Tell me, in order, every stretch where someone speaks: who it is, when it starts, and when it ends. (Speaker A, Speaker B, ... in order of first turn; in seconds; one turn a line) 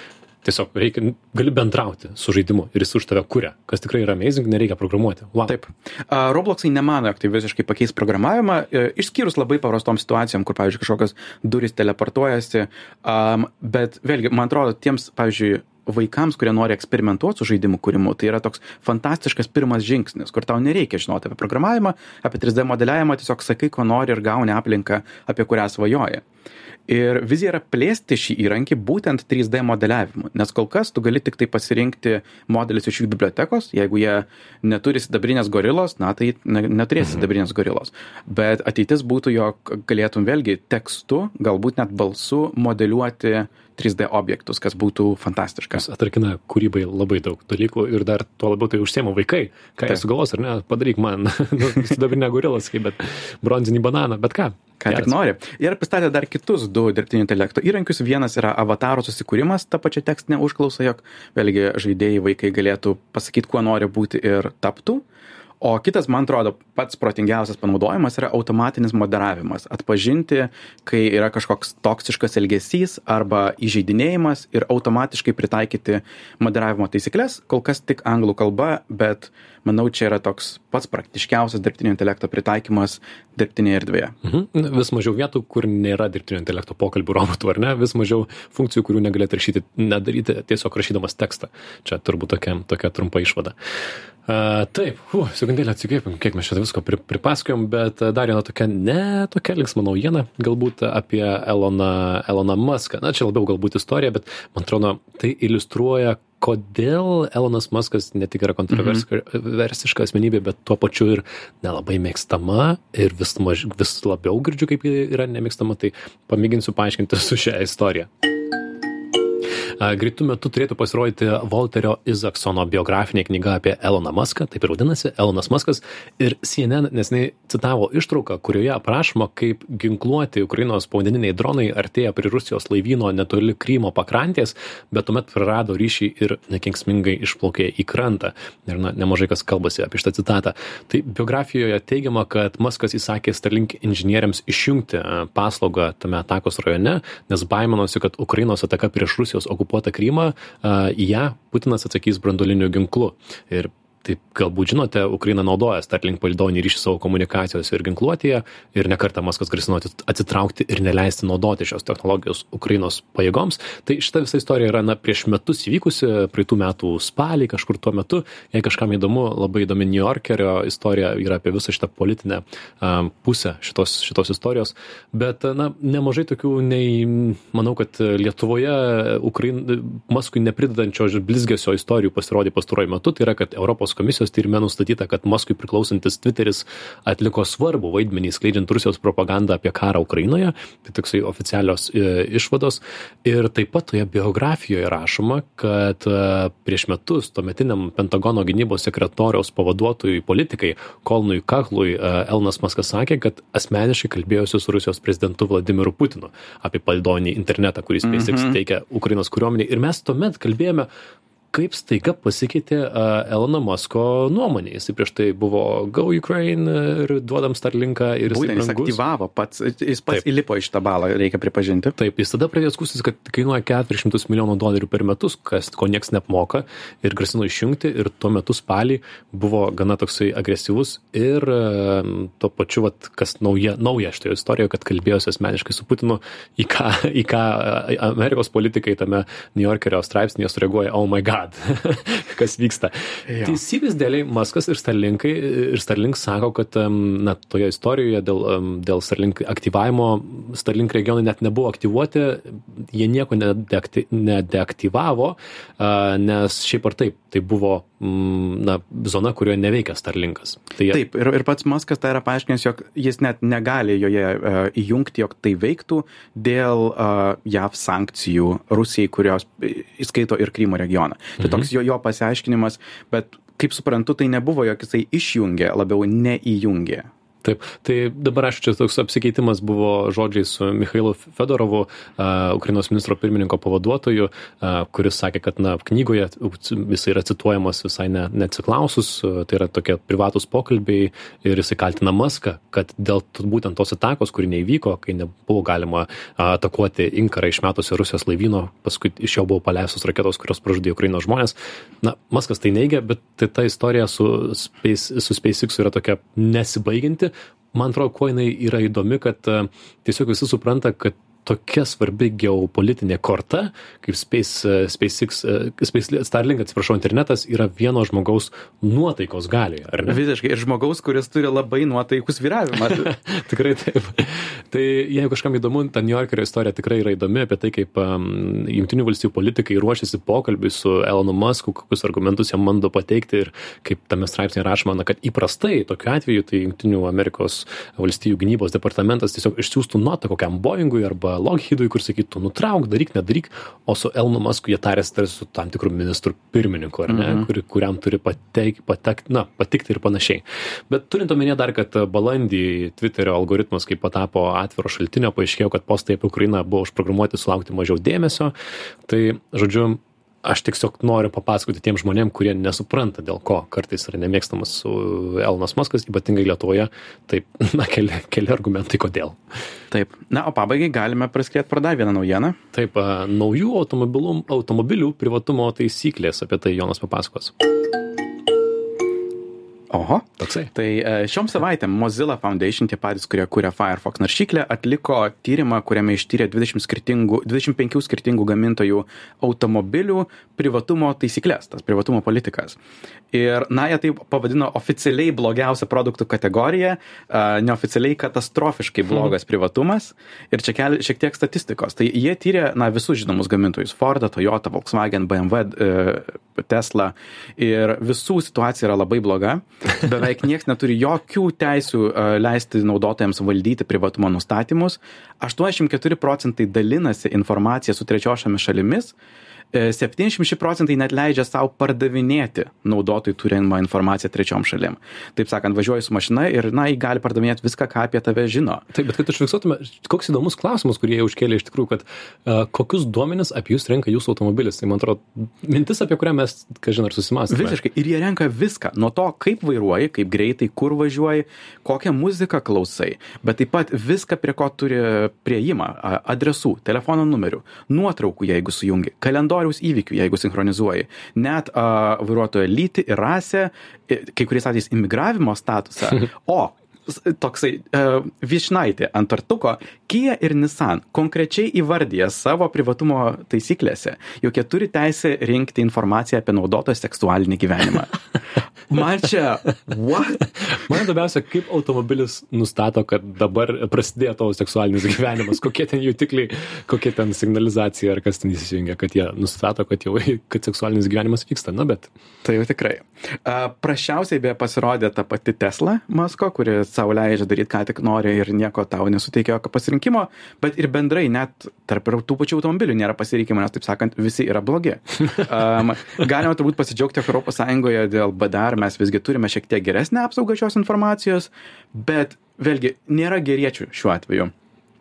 Speaker A: 0.4-5.5
Speaker B: 5.5-26.2
Speaker B: 26.9-45.8
Speaker A: 45.8-55.1
Speaker B: 54.8-65.0
Speaker B: 65.6-84.1
Speaker A: 84.2-93.5
Speaker A: 94.3-118.1
Speaker B: 108.7-109.0
Speaker A: 119.8-210.9
Speaker B: 208.0-208.6
Speaker A: 211.5-219.0
Speaker B: 218.3-222.0
Speaker A: 222.0-261.0
Speaker B: 243.3-243.6
Speaker B: 260.9-277.1
Speaker A: 271.4-271.7
Speaker A: 277.4-320.2
Speaker B: 320.1-323.1
Speaker A: 323.0-358.5
Speaker B: 347.1-347.5
Speaker A: 359.1-369.4
Speaker B: 369.9-372.6
Speaker A: 372.7-377.5
Speaker B: 379.9-392.8
Speaker A: 380.4-380.7
Speaker B: 393.3-419.1
Speaker B: 419.7-428.9
Speaker A: 428.9-437.8
Speaker B: 437.5-468.1
Speaker B: 468.9-470.5
Speaker A: 470.7-482.1
Speaker B: 482.4-504.5